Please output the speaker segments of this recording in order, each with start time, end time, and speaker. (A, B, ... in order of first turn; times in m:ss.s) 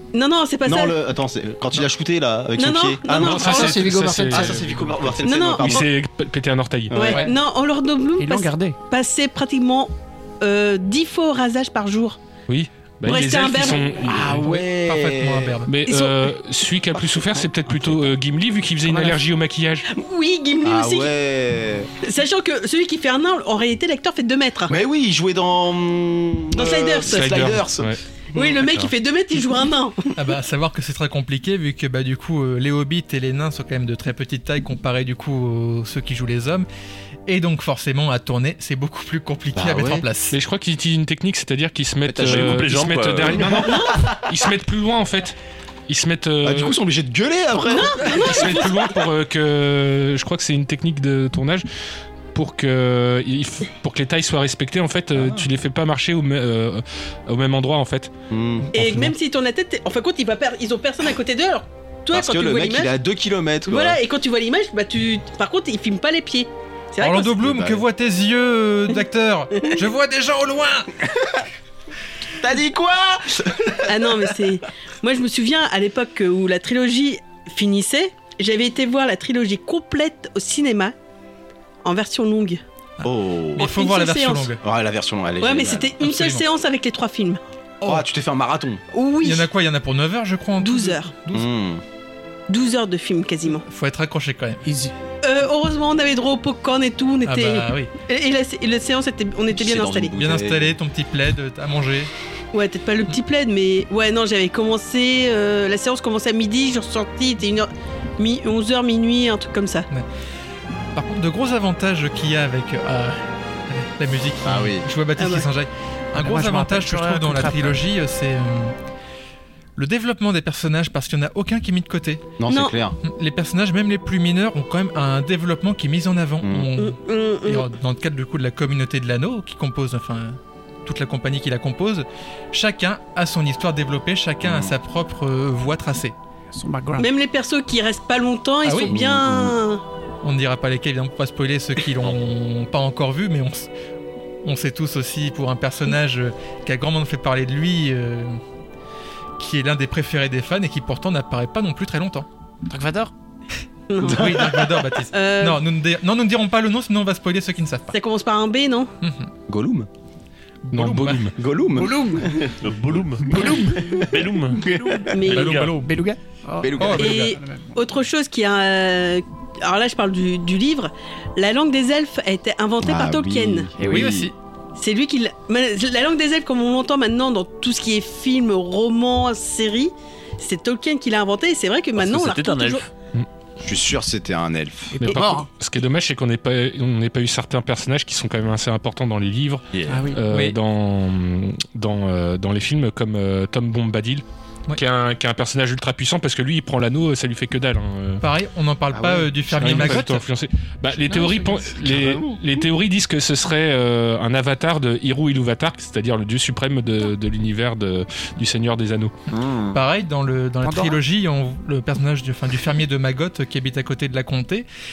0:00.1-0:01.0 A
0:00.6-0:03.8 B
0:02.6-0:03.8 A
0:03.1-0:07.2 C
0:03.4-0:04.6 D
0:04.3-0:05.9 B
0:05.2-0:05.9 A
0:06.9-0:07.2 B
0:06.9-0:12.2 A
0:08.2-0:08.8 D
0:12.5-0:14.6 C
0:13.0-0:13.9 A
0:14.1-0:15.5 B
0:14.2-0:15.7 E
0:15.6-0:19.9 C
0:15.8-0:16.3 A
0:17.0-0:18.0 B
0:18.8-0:19.2 D
0:19.9-0:21.1 A
0:20.6-0:21.9 B
0:22.0-0:24.8 A
0:24.7-0:27.9 B
0:26.5-0:27.4 A
0:27.1-0:28.0 C
0:28.3-0:30.1 A
0:28.6-0:28.9 C
0:30.2-0:36.7 E
0:37.3-0:40.4 E
0:39.5-0:40.0 B
0:40.3-0:45.4 C
0:42.0-0:42.6 B
0:42.2-0:43.5 F
0:43.3-0:44.2 B
0:43.6-0:44.0 A
0:45.9-0:46.8 C
0:46.4-0:48.4 B
0:47.6-0:48.9 A
0:48.0-0:51.6 C
0:52.3-0:58.1 C
0:55.1-0:55.4 B
0:58.3-0:58.7 B
0:58.6-0:59.1 E
0:58.7-1:02.9 A
0:58.8-0:59.1 C
1:02.1-1:04.0 B
1:03.6-1:07.3 A
1:07.0-1:10.9 E
1:07.4-1:07.8 B
1:12.4-1:13.8 B
1:13.8-1:20.9 A
1:21.8-1:22.6 A
1:23.0-1:24.6 E
1:23.0-1:23.6 B
1:23.6-1:24.5 A
1:24.6-1:25.9 B
1:25.4-1:27.4 A
1:26.0-1:26.4 E
1:27.8-1:28.8 B
1:28.9-1:29.5 A
1:29.2-1:31.5 E
1:30.6-1:31.1 A
1:31.3-1:31.8 B
1:32.5-1:33.6 A
1:33.6-1:34.6 E
1:34.6-1:34.9 D
1:35.2-1:40.1 A
1:37.2-1:37.9 E
1:39.5-1:40.7 B
1:40.2-1:42.1 E
1:42.5-1:49.9 A
1:50.9-1:58.8 E
1:54.4-1:54.8 B
1:55.2-1:55.5 A
1:56.2-1:57.8 D
1:59.8-2:02.3 E
2:02.4-2:03.0 B
2:02.5-2:02.7 A
2:03.0-2:16.2 E
2:06.8-2:07.7 A
2:14.4-2:14.7 B
2:16.5-2:17.1 D
2:17.0-2:19.8 A
2:18.6-2:18.9 E
2:18.8-2:19.5 B
2:20.2-2:23.7 E
2:24.4-2:28.4 E
2:29.4-2:32.3 E
2:32.7-2:33.1 D
2:33.9-2:35.6 A
2:34.0-2:37.9 E
2:37.9-2:38.9 A
2:39.0-2:39.3 E
2:39.5-2:39.9 B
2:40.6-2:41.3 E
2:40.7-2:41.3 C
2:41.4-2:42.5 B
2:41.7-2:42.5 D
2:42.6-2:44.6 F
2:43.2-2:45.1 B
2:43.3-2:44.0 D
2:44.6-2:45.1 D
2:45.1-2:45.5 A
2:45.2-2:45.7 F
2:45.3-2:45.9 E
2:45.6-2:47.8 D
2:46.6-2:47.2 B
2:46.8-2:47.3 E
2:46.9-2:53.7 A
2:52.8-2:54.3 B
2:53.8-2:54.3 E
2:54.8-3:02.8 A
3:02.0-3:02.9 F
3:03.6-3:05.0 B
3:04.9-3:05.5 D
3:05.0-3:14.2 C
3:09.7-3:10.0 F
3:09.9-3:10.2 D
3:10.3-3:10.6 E
3:14.7-3:18.2 C
3:18.2-3:20.2 E
3:18.9-3:20.0 B
3:19.6-3:29.1 C
3:21.1-3:21.7 D
3:21.9-3:22.2 B
3:29.3-3:29.8 B
3:29.7-3:34.7 E
3:30.6-3:31.0 D